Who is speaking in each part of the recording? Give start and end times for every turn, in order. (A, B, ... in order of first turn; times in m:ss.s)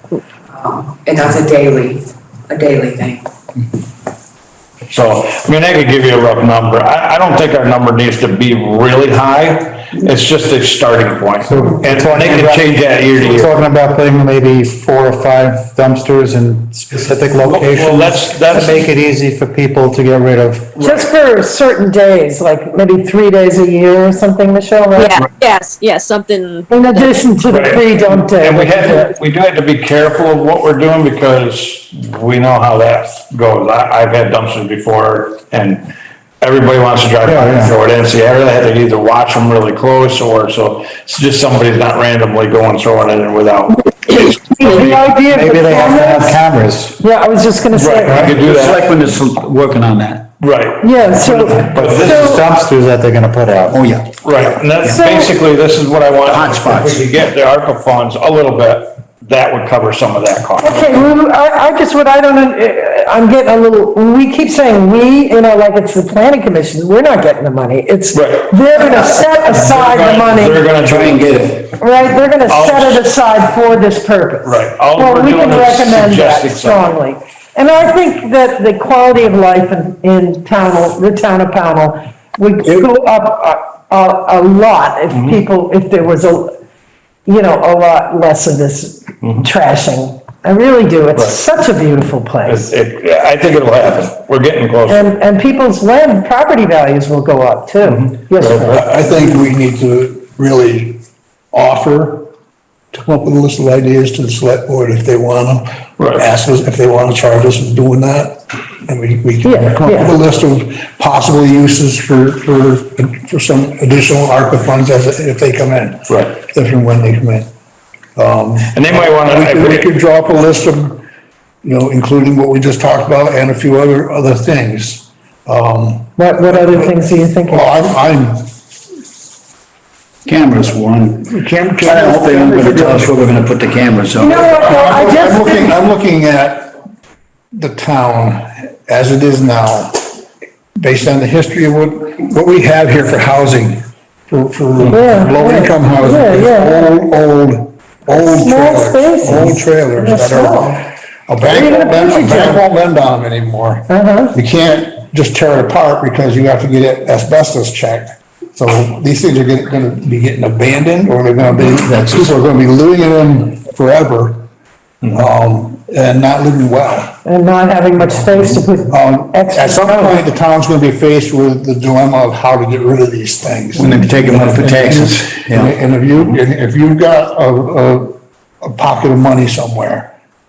0:00.5-0:03.3 A
0:04.9-0:13.5 B
0:11.4-0:20.7 C
0:17.4-0:18.9 B
0:20.8-0:21.1 B
0:20.8-0:25.2 D
0:25.0-0:27.4 E
0:26.7-0:29.1 D
0:27.5-0:35.9 B
0:36.4-0:45.0 B
0:37.2-0:37.7 C
0:44.2-0:46.5 D
0:45.2-0:47.0 C
0:47.0-0:48.3 D
0:47.7-0:48.9 B
0:48.1-0:50.3 F
0:50.4-0:52.4 B
0:50.8-0:52.4 D
0:51.6-0:53.8 C
0:53.7-0:55.1 F
0:54.2-1:01.0 B
0:54.9-0:55.3 D
0:56.2-0:57.1 F
1:00.6-1:10.6 D
1:08.1-1:08.6 B
1:09.4-1:11.6 B
1:10.8-1:11.7 F
1:11.8-1:26.6 D
1:12.5-1:13.1 B
1:14.4-1:16.9 B
1:25.1-1:25.4 B
1:27.3-1:32.7 D
1:32.4-1:35.1 B
1:34.9-1:38.7 D
1:37.8-1:38.9 B
1:38.4-1:41.0 G
1:41.5-1:42.3 G
1:42.9-1:57.5 G
1:46.0-1:46.3 B
1:49.4-1:50.2 D
1:56.1-1:56.4 B
1:58.2-2:01.0 G
1:58.7-1:59.9 B
2:01.6-2:08.5 G
2:06.2-2:07.8 D
2:10.3-2:14.7 F
2:11.2-2:13.1 G
2:14.2-2:15.8 D
2:14.4-2:16.8 G
2:17.5-2:20.0 G
2:20.8-2:44.4 G
2:24.9-2:26.9 D
2:28.1-2:30.8 D
2:31.4-2:32.6 D
2:33.9-2:34.4 D
2:45.1-2:47.2 G
2:47.2-2:50.2 D
2:48.9-3:00.1 G
2:53.8-2:55.7 F